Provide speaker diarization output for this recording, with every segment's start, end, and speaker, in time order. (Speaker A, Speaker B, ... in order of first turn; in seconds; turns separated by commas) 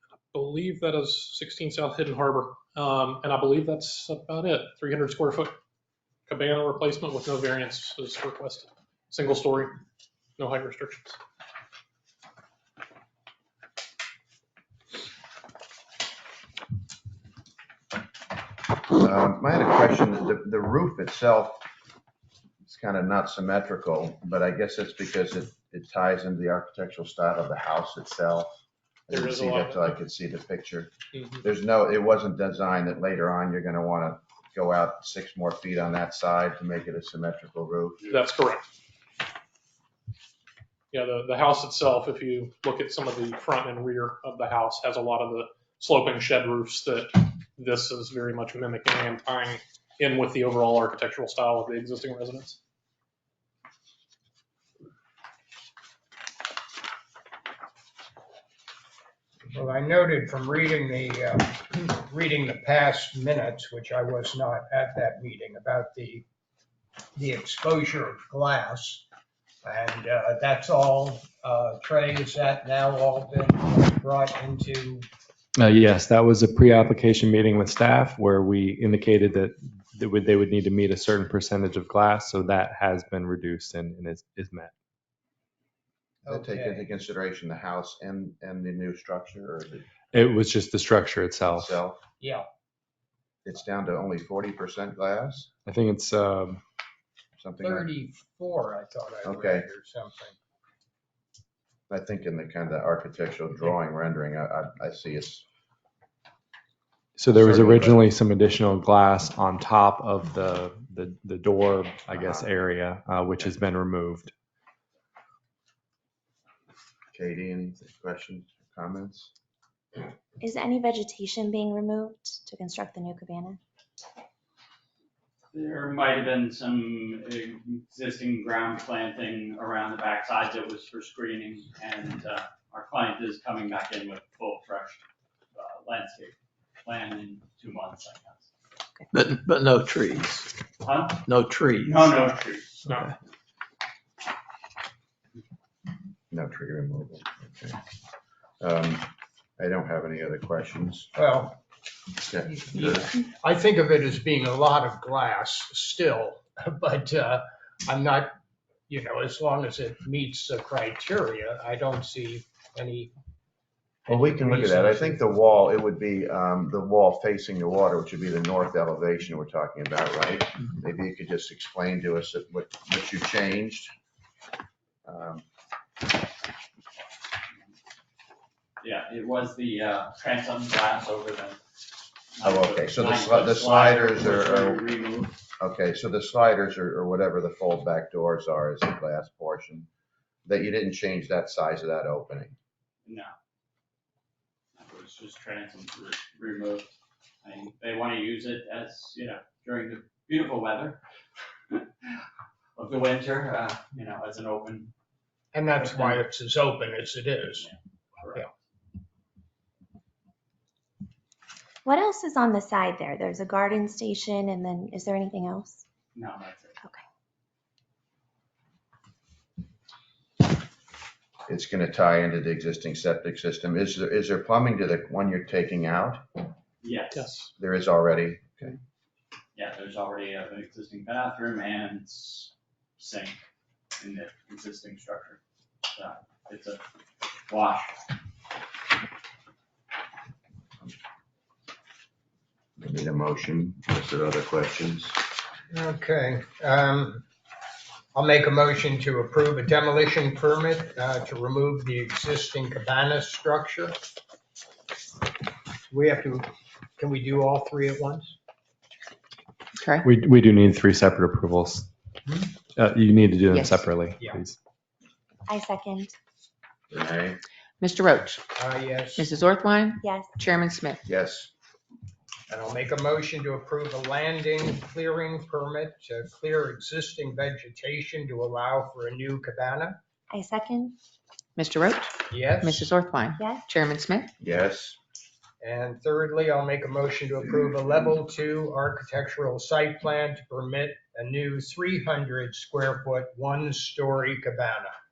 Speaker A: 0.3-5.5, Speaker A: 6.3-9.8, Speaker A: 10.4-11.2, Speaker B: 18.9-21.6, Speaker B: 22.6-28.6, Speaker B: 29.1-30.9, Speaker A: 29.1-30.0, Speaker B: 31.4-38.1, Speaker A: 38.1-38.7, Speaker A: 40.9-52.6, Speaker C: 59.5-66.2, Speaker C: 67.2-69.0, Speaker C: 69.6-75.1, Speaker D: 75.6-84.7, Speaker C: 86.2-86.9, Speaker B: 86.2-89.9, Speaker D: 90.1-91.7, Speaker B: 91.6-92.0, Speaker C: 92.2-92.5, Speaker B: 93.5-95.5, Speaker D: 95.7-96.6, Speaker B: 97.4-97.9, Speaker C: 97.6-100.3, Speaker B: 99.2-99.7, Speaker B: 101.9-105.5, Speaker D: 107.2-114.3, Speaker B: 107.3-108.0, Speaker B: 112.1-112.5, Speaker B: 117.1-119.3, Speaker E: 120.4-123.6, Speaker F: 125.5-135.0, Speaker F: 135.5-138.5, Speaker G: 139.1-140.5, Speaker F: 140.8-141.2, Speaker G: 141.2-142.2, Speaker F: 141.8-142.8, Speaker A: 142.9-143.1, Speaker B: 146.3-147.8, Speaker B: 148.6-151.1, Speaker C: 151.2-151.6, Speaker B: 152.2-153.1, Speaker C: 152.4-158.3, Speaker C: 158.9-163.1, Speaker C: 164.1-165.2, Speaker B: 164.1-173.9, Speaker B: 175.1-175.4, Speaker F: 178.8-181.6, Speaker F: 182.3-185.4, Speaker B: 182.4-184.9, Speaker B: 185.6-189.9, Speaker B: 190.4-192.6, Speaker F: 193.1-193.3, Speaker F: 194.8-196.9, Speaker F: 197.4-201.0, Speaker F: 202.8-204.9, Speaker C: 205.5-207.7, Speaker F: 205.8-206.2, Speaker F: 207.6-208.5, Speaker E: 211.8-215.8, Speaker F: 216.2-216.8, Speaker B: 221.5-226.2, Speaker F: 226.8-227.3, Speaker A: 227.1-227.5, Speaker B: 227.6-228.8, Speaker F: 229.6-233.4, Speaker F: 234.0-235.4, Speaker F: 235.9-236.8, Speaker F: 237.5-237.9, Speaker B: 242.8-245.2, Speaker C: 245.7-247.2, Speaker C: 248.1-254.0, Speaker C: 255.9-258.3, Speaker H: 259.8-260.0, Speaker D: 260.0-261.9, Speaker D: 262.7-264.6, Speaker H: 263.5-263.9, Speaker E: 265.5-266.1, Speaker B: 266.9-267.4, Speaker H: 267.8-268.4, Speaker C: 268.6-269.3, Speaker H: 269.2-271.0, Speaker E: 270.0-270.3, Speaker B: 271.0-271.5, Speaker C: 272.5-280.0, Speaker E: 280.3-280.9, Speaker H: 281.6-284.3, Speaker C: 282.3-282.9, Speaker E: 283.3-283.6, Speaker B: 284.4-285.0, Speaker C: 285.6-294.9